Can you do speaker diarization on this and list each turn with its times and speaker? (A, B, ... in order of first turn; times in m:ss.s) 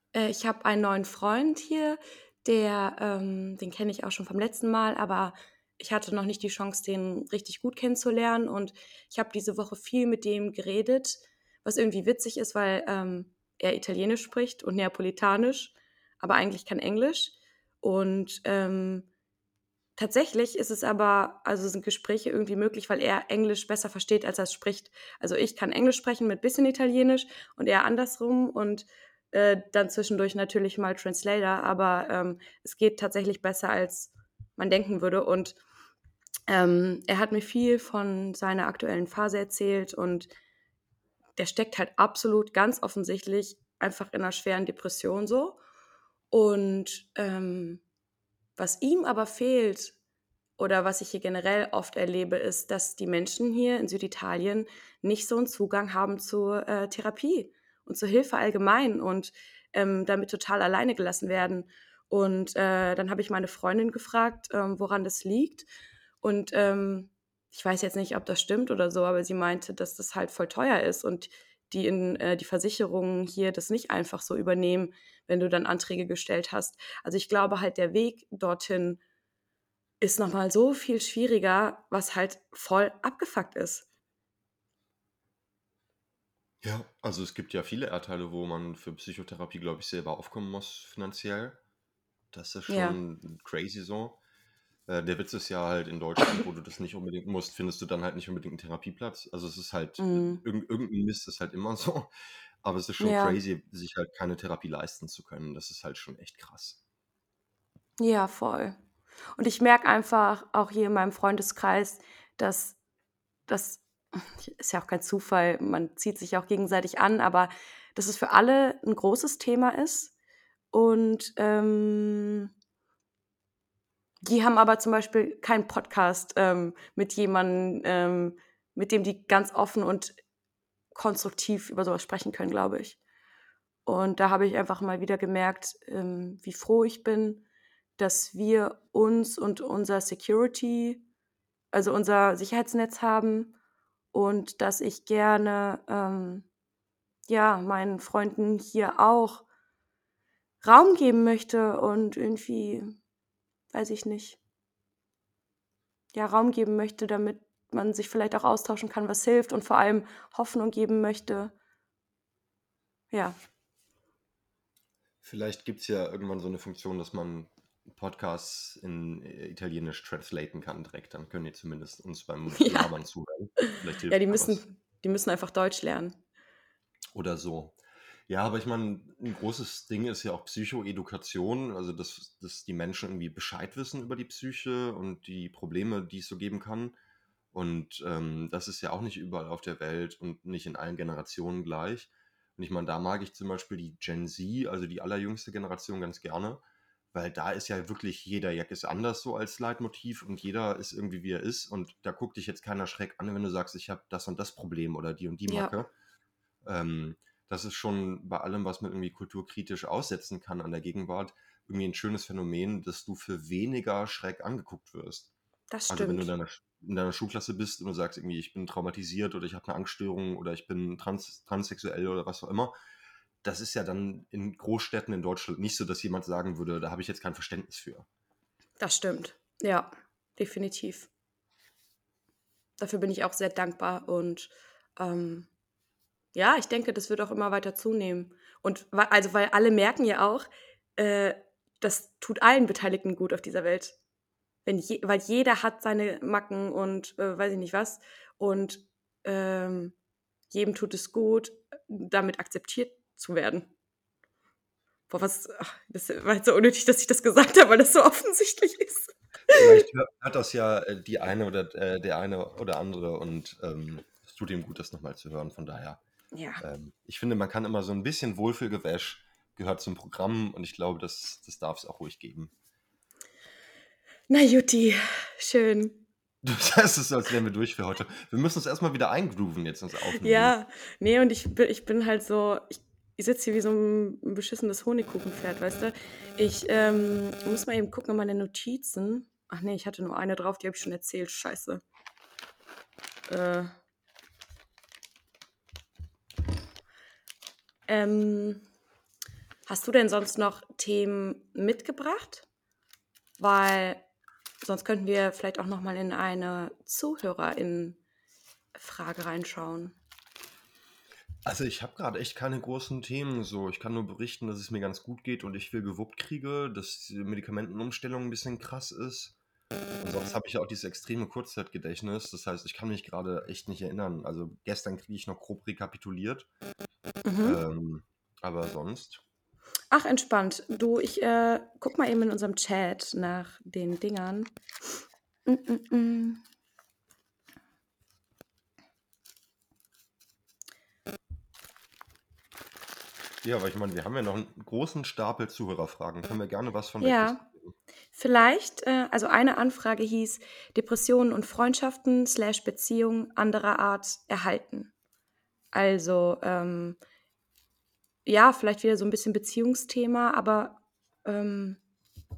0:00.1-0:19.1 A
0:20.0-0:35.6 A
0:36.5-0:40.3 A
0:41.4-0:45.6 A
0:46.3-0:47.8 A
0:48.6-0:50.0 A
0:50.6-1:05.7 A
1:06.2-1:19.0 A
1:20.0-1:23.9 A
1:26.6-1:31.6 B
1:32.3-1:34.2 B
1:32.7-1:33.0 A
1:34.9-1:42.1 B
1:40.0-1:40.4 A
1:42.6-1:46.8 B
1:43.0-1:43.4 A
1:48.0-1:48.8 A
1:49.4-1:52.8 A
1:53.5-2:00.1 A
2:00.7-2:02.5 A
2:04.2-2:10.2 A
2:10.9-2:13.0 A
2:13.9-2:17.4 A
2:18.0-2:21.0 A
2:21.7-2:23.5 A
2:24.1-2:26.5 A
2:27.3-2:29.5 A
2:30.6-2:33.0 A
2:33.7-2:34.4 A
2:36.1-2:41.5 A
2:43.1-2:43.4 A
2:45.2-2:54.6 B
2:52.5-2:52.9 A
2:53.7-2:56.2 A
2:57.1-2:57.8 B
2:58.3-3:07.0 B
3:07.5-3:16.6 B
3:17.1-3:25.9 B
3:25.5-3:25.7 A
3:26.6-3:35.3 B
3:35.7-3:36.3 A
3:35.9-3:42.7 B
3:43.4-3:48.1 B
3:48.8-3:51.1 A
3:52.8-3:55.5 A
3:56.4-4:04.0 A
4:04.7-4:10.0 A
4:10.5-4:13.7 A
4:15.1-4:19.8 A
4:19.5-4:26.0 B
4:26.3-4:26.6 A
4:26.6-4:32.5 B
4:34.3-4:36.0 A
4:36.4-4:40.6 B
4:40.2-4:51.8 A
4:53.3-4:53.8 A
4:57.9-4:58.7 A
4:59.7-5:02.5 A
5:03.4-5:04.0 A
5:04.6-5:08.0 A
5:08.8-5:10.0 A
5:11.4-5:19.4 B
5:20.0-5:26.5 B
5:27.2-5:27.6 A
5:27.4-5:29.2 B
5:29.9-5:34.5 A
5:35.5-5:36.4 A
5:43.4-5:47.8 B
5:47.0-5:47.4 A
5:48.1-5:54.9 A
5:55.7-5:57.0 A
5:58.3-6:01.8 A